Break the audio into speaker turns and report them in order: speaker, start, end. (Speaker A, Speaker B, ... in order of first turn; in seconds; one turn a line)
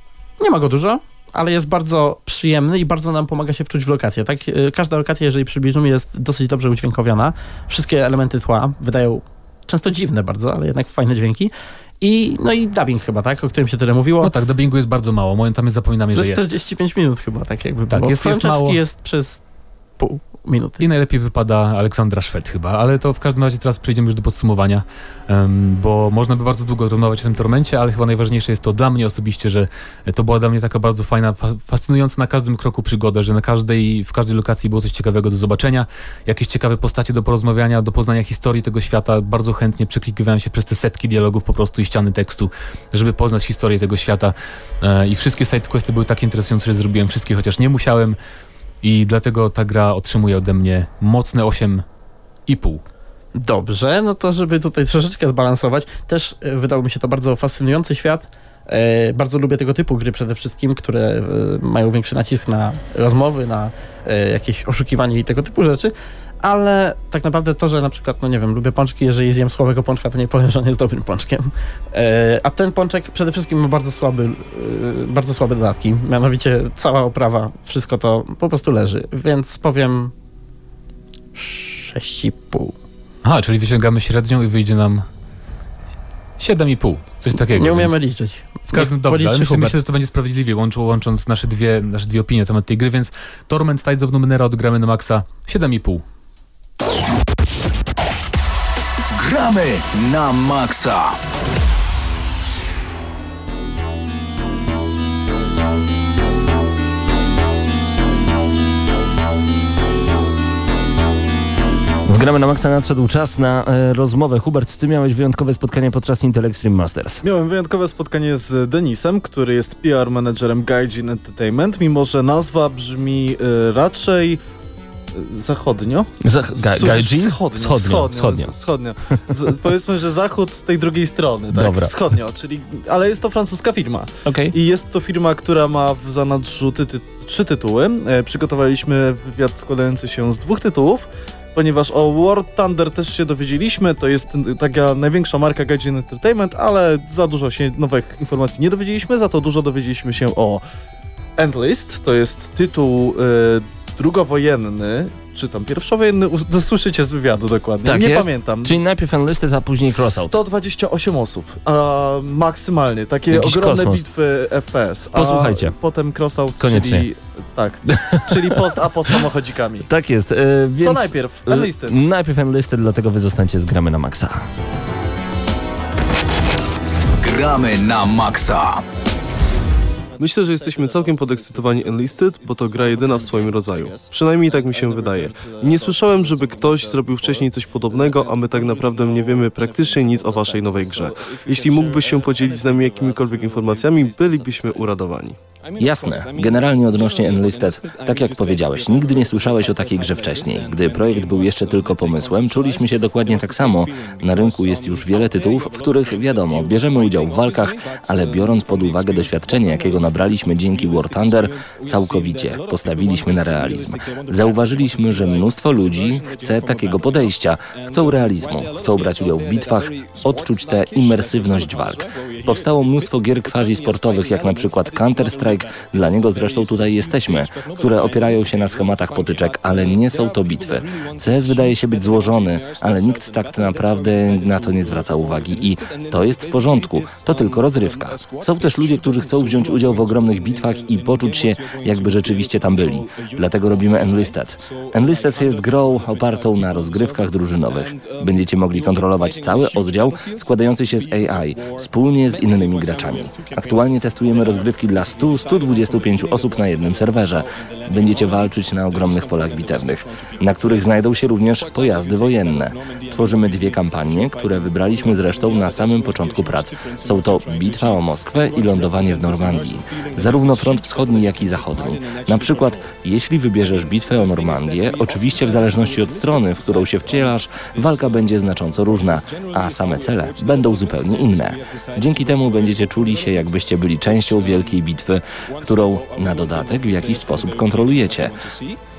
Speaker A: 0.4-14.3
Speaker B: 14.2-16.5
Speaker A: 16.1-19.4
Speaker B: 17.9-18.8
Speaker A: 20.0-20.8
Speaker B: 20.8-48.2
Speaker B: 48.8-51.8
Speaker B: 52.5-52.8
Speaker A: 53.4-80.1
Speaker A: 81.3-82.7
Speaker B: 83.2-85.0
Speaker B: 86.4-88.0
Speaker A: 87.3-89.8
Speaker B: 88.7-96.0
Speaker C: 99.1-101.2
Speaker D: 112.0-117.2
Speaker E: 117.2-124.4
Speaker E: 125.1-150.6
Speaker D: 126.2-128.5
Speaker D: 131.5-131.9
Speaker D: 134.2-134.5
Speaker E: 151.4-158.8
Speaker D: 157.8-160.3
Speaker E: 159.9-169.9
Speaker D: 163.3-164.0
Speaker D: 165.1-165.8
Speaker D: 166.6-167.1
Speaker D: 167.9-168.5
Speaker D: 169.9-174.4
Speaker E: 170.8-172.1
Speaker C: 177.2-178.8
Speaker F: 180.2-195.4
Speaker G: 195.8-288.4